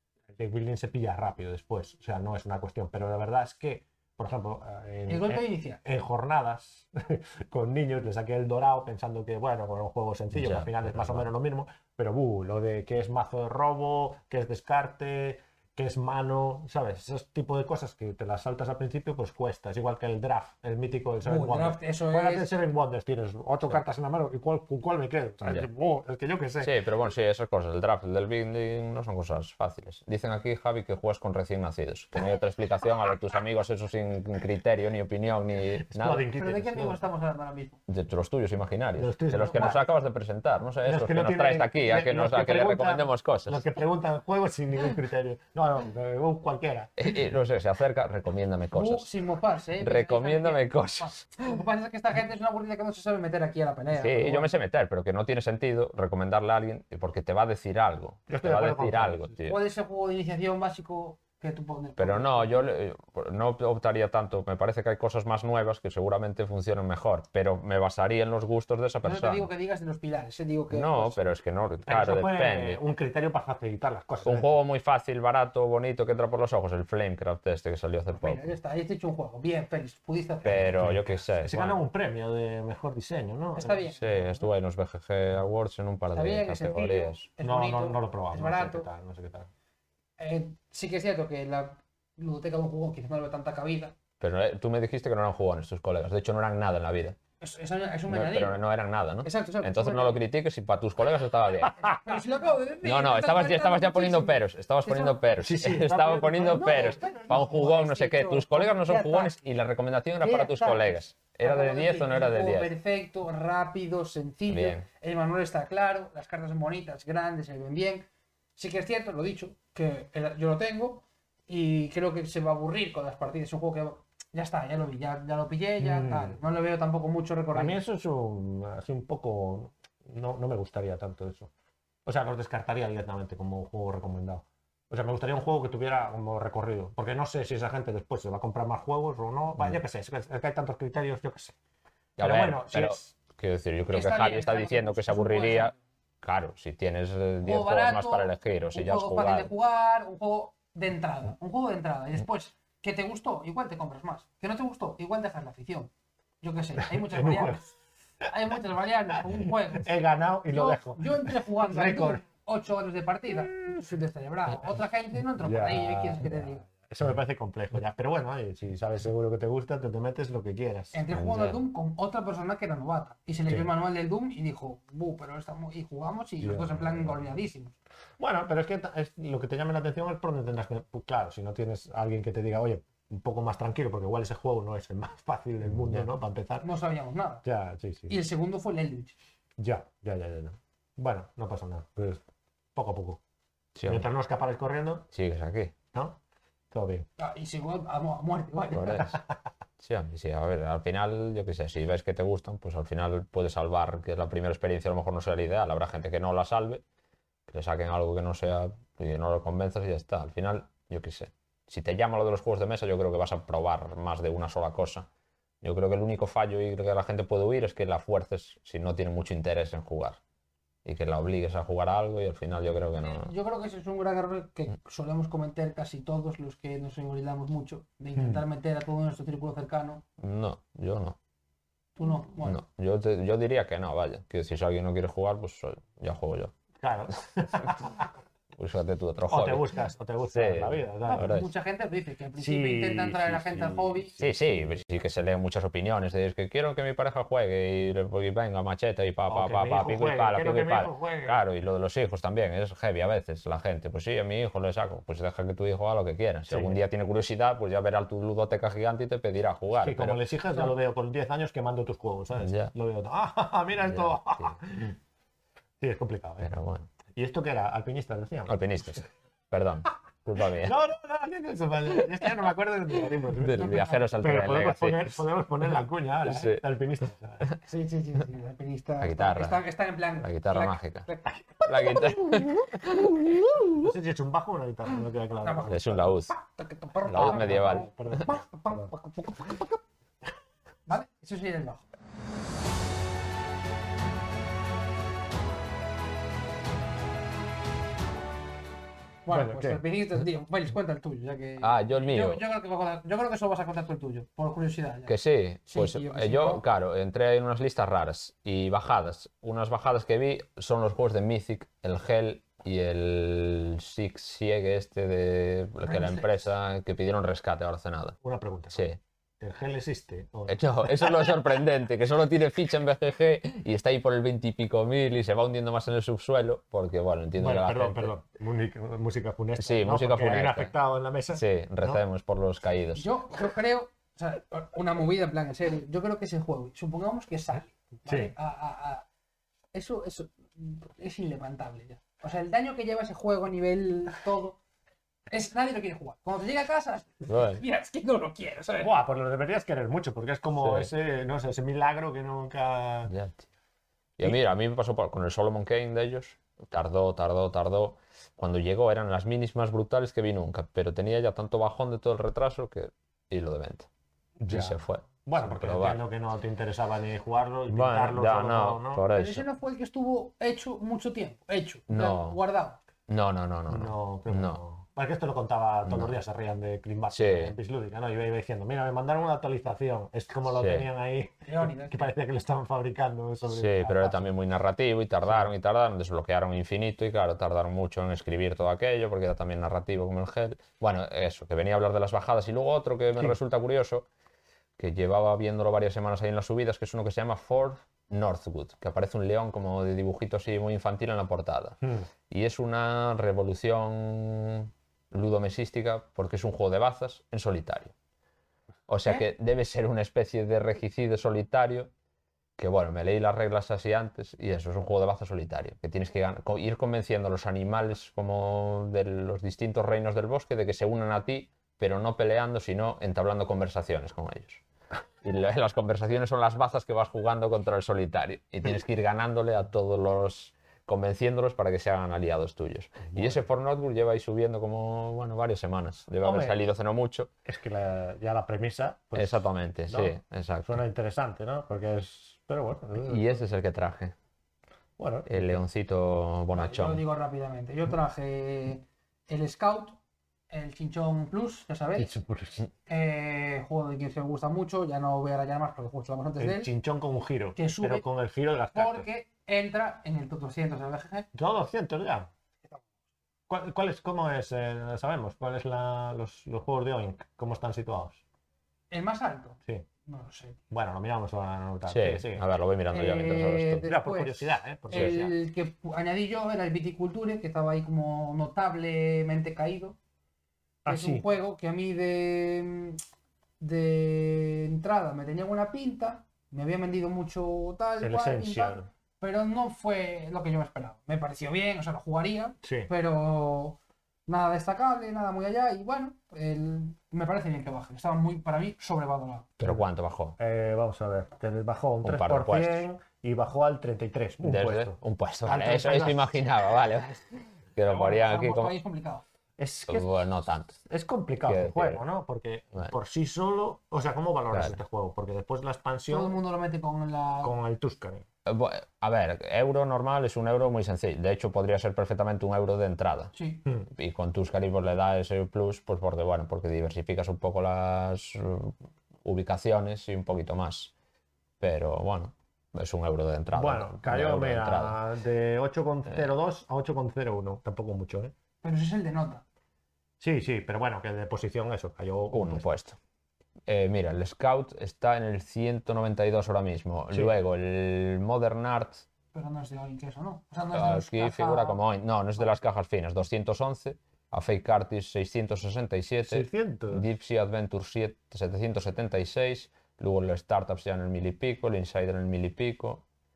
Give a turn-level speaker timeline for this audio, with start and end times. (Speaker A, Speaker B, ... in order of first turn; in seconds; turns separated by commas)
Speaker A: 0.3-26.7, Speaker B: 5.1-5.8, Speaker C: 10.3-11.3, Speaker B: 21.2-22.5, Speaker C: 26.6-36.2, Speaker A: 35.9-37.0, Speaker B: 36.4-37.8, Speaker C: 37.9-43.6, Speaker A: 39.0-39.9, Speaker B: 39.5-39.8, Speaker A: 40.8-46.9, Speaker C: 47.0-49.1, Speaker B: 48.7-54.5, Speaker C: 49.8-51.3, Speaker C: 53.9-59.6, Speaker A: 58.3-59.3, Speaker B: 59.4-62.7, Speaker C: 62.0-69.5, Speaker B: 69.0-71.2, Speaker C: 70.7-72.8, Speaker A: 71.9-74.5, Speaker C: 74.2-78.5, Speaker B: 78.2-80.8, Speaker C: 80.4-81.8, Speaker A: 80.6-83.9, Speaker B: 83.5-84.5, Speaker C: 83.9-87.3, Speaker B: 86.1-88.9, Speaker A: 87.4-89.5, Speaker B: 90.2-94.0, Speaker C: 94.2-97.2, Speaker B: 97.4-98.6, Speaker C: 98.1-101.9, Speaker B: 99.2-100.2, Speaker B: 102.0-105.2, Speaker C: 102.8-112.7, Speaker A: 105.4-107.2, Speaker B: 106.5-109.4, Speaker B: 110.2-127.8, Speaker C: 114.5-114.8, Speaker A: 125.8-126.4, Speaker A: 127.5-131.5, Speaker A: 132.1-141.6, Speaker C: 142.2-149.5, Speaker A: 142.2-143.1, Speaker B: 143.9-145.8, Speaker B: 147.4-155.9, Speaker B: 156.4-157.7, Speaker A: 156.9-157.7, Speaker B: 158.2-159.9, Speaker A: 159.3-162.2, Speaker B: 160.5-166.7, Speaker A: 165.4-171.0, Speaker B: 170.9-177.8, Speaker C: 171.1-171.6, Speaker A: 176.4-177.2, Speaker A: 178.2-186.7, Speaker B: 186.6-187.4, Speaker A: 187.4-188.2, Speaker B: 188.1-189.2, Speaker A: 189.6-192.2, Speaker A: 192.8-193.2, Speaker C: 193.8-194.1, Speaker A: 193.8-195.1, Speaker C: 195.1-195.8, Speaker A: 195.9-196.2, Speaker A: 196.7-197.1, Speaker B: 197.2-199.2, Speaker C: 198.7-199.1, Speaker C: 199.8-206.8, Speaker C: 207.5-215.1, Speaker C: 215.6-220.2, Speaker C: 220.8-223.3, Speaker B: 223.0-230.0, Speaker A: 228.2-228.4, Speaker C: 230.2-231.2, Speaker B: 232.0-232.6, Speaker C: 232.4-236.5, Speaker A: 236.8-238.1, Speaker C: 238.6-239.7, Speaker A: 239.3-241.3, Speaker C: 240.3-241.5, Speaker B: 241.1-244.2, Speaker A: 242.4-244.6, Speaker C: 244.2-260.2, Speaker A: 249.3-251.4, Speaker A: 256.5-256.8, Speaker A: 259.8-265.0, Speaker C: 262.4-262.7, Speaker C: 263.9-264.5, Speaker A: 265.8-266.5, Speaker C: 266.4-266.9, Speaker A: 267.1-268.6, Speaker C: 268.5-270.8, Speaker A: 270.6-277.5, Speaker C: 273.3-275.2, Speaker B: 273.6-274.0, Speaker C: 276.2-276.6, Speaker B: 277.6-282.1, Speaker C: 279.0-279.6, Speaker C: 280.2-281.1, Speaker C: 281.6-283.3, Speaker A: 283.8-286.1, Speaker B: 285.4-289.8, Speaker C: 285.7-286.3, Speaker C: 287.1-288.2, Speaker A: 287.1-288.9, Speaker B: 290.9-291.9, Speaker B: 299.3-305.2, Speaker A: 299.3-299.8, Speaker C: 301.6-302.4, Speaker C: 305.1-318.2, Speaker B: 305.7-306.6, Speaker B: 315.9-316.3, Speaker A: 318.2-318.9, Speaker C: 318.7-319.0, Speaker A: 319.4-321.4, Speaker C: 320.5-328.1, Speaker A: 327.4-332.0, Speaker C: 329.6-330.7, Speaker C: 331.3-333.1, Speaker B: 332.9-339.1, Speaker A: 338.1-338.3, Speaker B: 339.7-344.6, Speaker B: 345.3-348.9, Speaker C: 347.3-347.6, Speaker A: 348.8-353.1, Speaker C: 350.6-350.9, Speaker C: 353.1-353.5, Speaker C: 354.2-363.9, Speaker A: 364.4-369.0, Speaker C: 364.5-366.0, Speaker C: 367.7-369.4, Speaker B: 369.1-372.8, Speaker C: 371.9-372.4, Speaker C: 373.1-374.6, Speaker A: 373.7-384.3, Speaker C: 375.9-376.1, Speaker C: 377.1-377.5, Speaker C: 380.5-380.9, Speaker B: 381.4-382.1, Speaker C: 383.5-394.1, Speaker C: 394.8-401.8, Speaker C: 402.3-407.9, Speaker C: 408.9-411.9, Speaker C: 412.6-424.6, Speaker C: 425.2-437.3, Speaker A: 433.1-433.4, Speaker A: 436.2-436.6, Speaker A: 437.4-443.4, Speaker C: 439.2-440.8, Speaker C: 443.0-444.1, Speaker A: 445.0-445.6, Speaker C: 445.3-447.0, Speaker B: 446.5-450.0, Speaker B: 450.5-452.2, Speaker A: 452.0-452.7, Speaker B: 452.9-456.7, Speaker A: 456.4-459.1, Speaker B: 457.6-458.1, Speaker B: 458.7-461.3, Speaker A: 461.3-462.3, Speaker A: 463.5-468.2, Speaker B: 468.9-470.6, Speaker A: 470.7-472.4, Speaker C: 471.9-473.9, Speaker B: 472.9-480.0, Speaker A: 473.9-475.3, Speaker A: 480.9-481.2, Speaker B: 480.9-483.0, Speaker B: 483.6-499.5, Speaker A: 488.0-488.9, Speaker A: 492.6-492.9, Speaker A: 499.6-499.9, Speaker C: 499.6-500.4, Speaker A: 500.4-506.4, Speaker C: 502.0-502.8, Speaker C: 504.4-508.7, Speaker B: 507.8-509.2, Speaker A: 509.6-510.1, Speaker C: 509.9-510.8, Speaker A: 510.9-516.4, Speaker C: 511.5-512.0, Speaker B: 516.1-517.5, Speaker A: 517.4-518.2, Speaker C: 518.5-523.3, Speaker B: 523.3-523.6, Speaker C: 523.9-530.9, Speaker C: 531.6-535.0, Speaker A: 533.5-538.3, Speaker B: 538.6-539.4, Speaker A: 540.2-542.6, Speaker C: 542.3-543.0, Speaker C: 543.7-549.1, Speaker B: 549.3-551.8, Speaker C: 550.7-563.0, Speaker A: 556.2-557.1